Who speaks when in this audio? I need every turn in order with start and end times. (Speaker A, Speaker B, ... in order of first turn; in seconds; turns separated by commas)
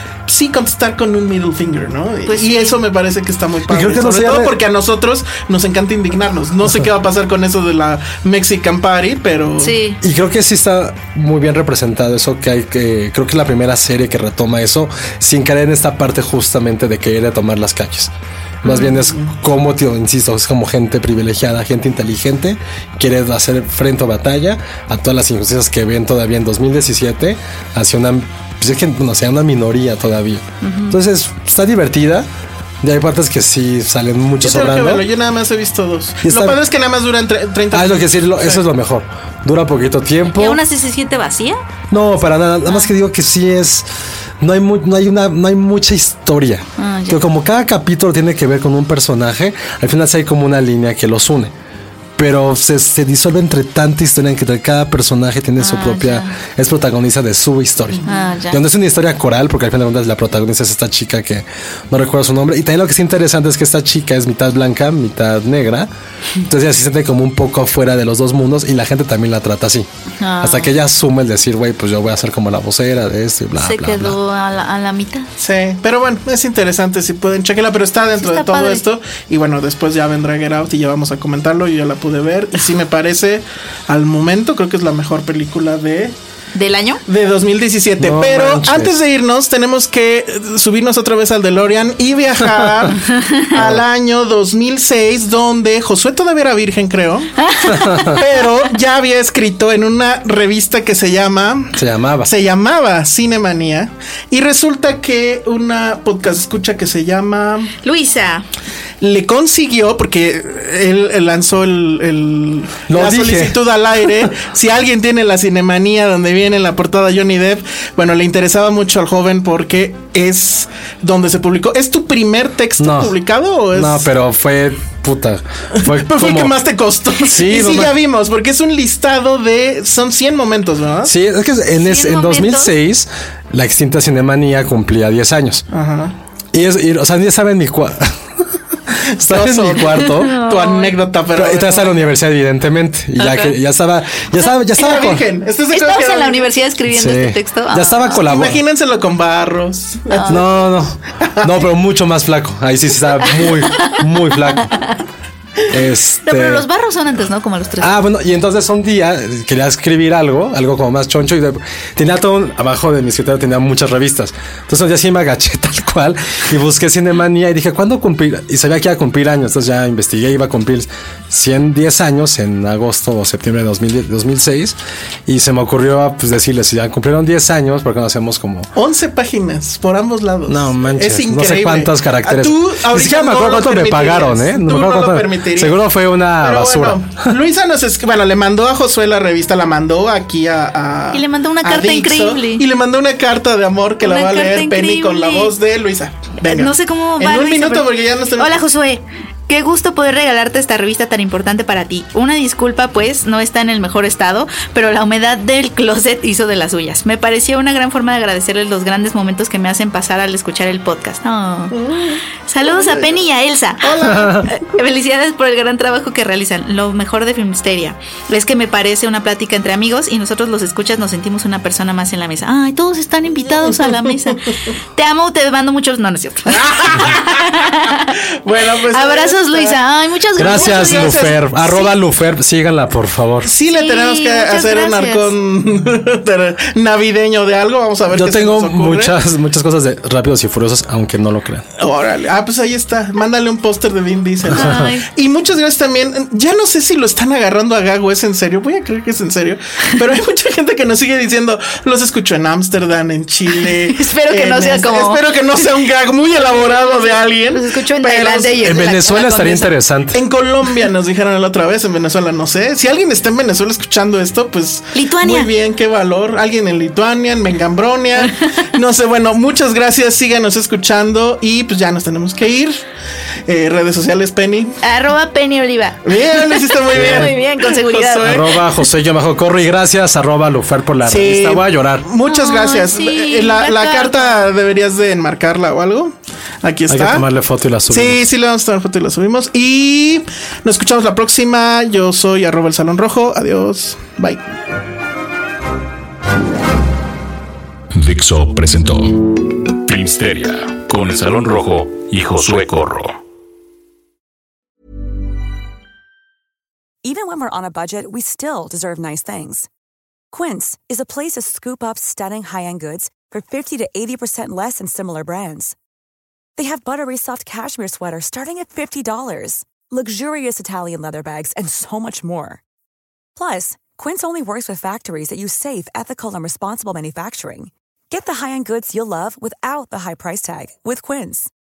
Speaker A: 0.2-9.8, Speaker B: 2.3-2.8, Speaker C: 3.7-4.5, Speaker B: 9.6-10.0, Speaker C: 10.0-18.1, Speaker C: 18.6-32.3, Speaker A: 18.7-19.3, Speaker B: 30.6-31.0, Speaker C: 32.8-35.1, Speaker A: 34.4-38.6, Speaker C: 36.2-36.6, Speaker C: 37.7-40.6, Speaker B: 40.3-41.6, Speaker C: 41.9-43.9, Speaker C: 44.4-51.5, Speaker B: 46.8-47.2, Speaker C: 52.1-69.9, Speaker B: 55.6-56.4, Speaker B: 58.0-58.6, Speaker B: 70.2-70.7, Speaker C: 70.4-74.2, Speaker B: 73.5-75.3, Speaker A: 75.4-86.1, Speaker B: 78.2-78.8, Speaker B: 86.5-87.0, Speaker A: 87.1-93.0, Speaker C: 88.0-88.9, Speaker C: 92.6-92.8, Speaker B: 93.0-93.5, Speaker A: 93.5-97.3, Speaker C: 93.5-93.8, Speaker B: 97.4-98.2, Speaker C: 97.7-98.2, Speaker A: 98.0-107.7, Speaker C: 101.8-102.3, Speaker B: 107.8-108.4, Speaker A: 109.0-124.1, Speaker C: 112.9-114.3, Speaker C: 122.8-123.1, Speaker C: 123.7-126.6, Speaker A: 125.8-131.1, Speaker C: 127.2-128.0, Speaker C: 131.0-135.7, Speaker B: 131.8-132.7, Speaker A: 135.7-136.1, Speaker C: 136.5-140.3, Speaker A: 139.1-142.1, Speaker B: 139.9-141.0, Speaker C: 141.3-145.2, Speaker B: 143.2-143.5, Speaker A: 144.7-146.5, Speaker B: 145.7-148.2, Speaker C: 146.9-148.6, Speaker A: 148.2-150.6, Speaker B: 150.1-150.4, Speaker C: 150.3-154.7, Speaker A: 151.2-151.7, Speaker B: 154.7-155.0, Speaker C: 155.7-156.6, Speaker B: 156.2-158.0, Speaker C: 157.8-178.7, Speaker A: 178.7-185.8, Speaker C: 180.5-187.1, Speaker A: 186.4-198.6, Speaker B: 191.1-192.7, Speaker B: 194.0-195.5, Speaker B: 196.4-211.7, Speaker A: 211.7-213.2, Speaker B: 212.5-228.1, Speaker A: 213.8-214.5, Speaker C: 214.1-214.5, Speaker A: 226.5-229.8, Speaker B: 228.9-231.9, Speaker C: 230.4-233.5, Speaker A: 230.4-231.4, Speaker A: 233.4-239.1, Speaker B: 233.7-235.3, Speaker C: 238.1-241.7, Speaker A: 241.8-258.6, Speaker B: 244.5-245.1, Speaker C: 244.5-244.8, Speaker B: 253.6-255.2, Speaker B: 256.4-257.0, Speaker B: 257.5-259.7, Speaker C: 258.6-260.2, Speaker A: 260.1-272.8, Speaker B: 264.9-265.5, Speaker A: 273.4-274.8, Speaker B: 274.8-278.3, Speaker A: 276.0-278.6, Speaker C: 276.9-277.3, Speaker C: 278.2-282.1, Speaker A: 281.0-287.2, Speaker B: 282.2-284.4, Speaker C: 286.9-288.2, Speaker A: 287.9-294.4, Speaker D: 297.9-303.2, Speaker E: 307.0-309.7, Speaker E: 310.3-315.8, Speaker E: 316.6-322.6, Speaker E: 323.4-331.5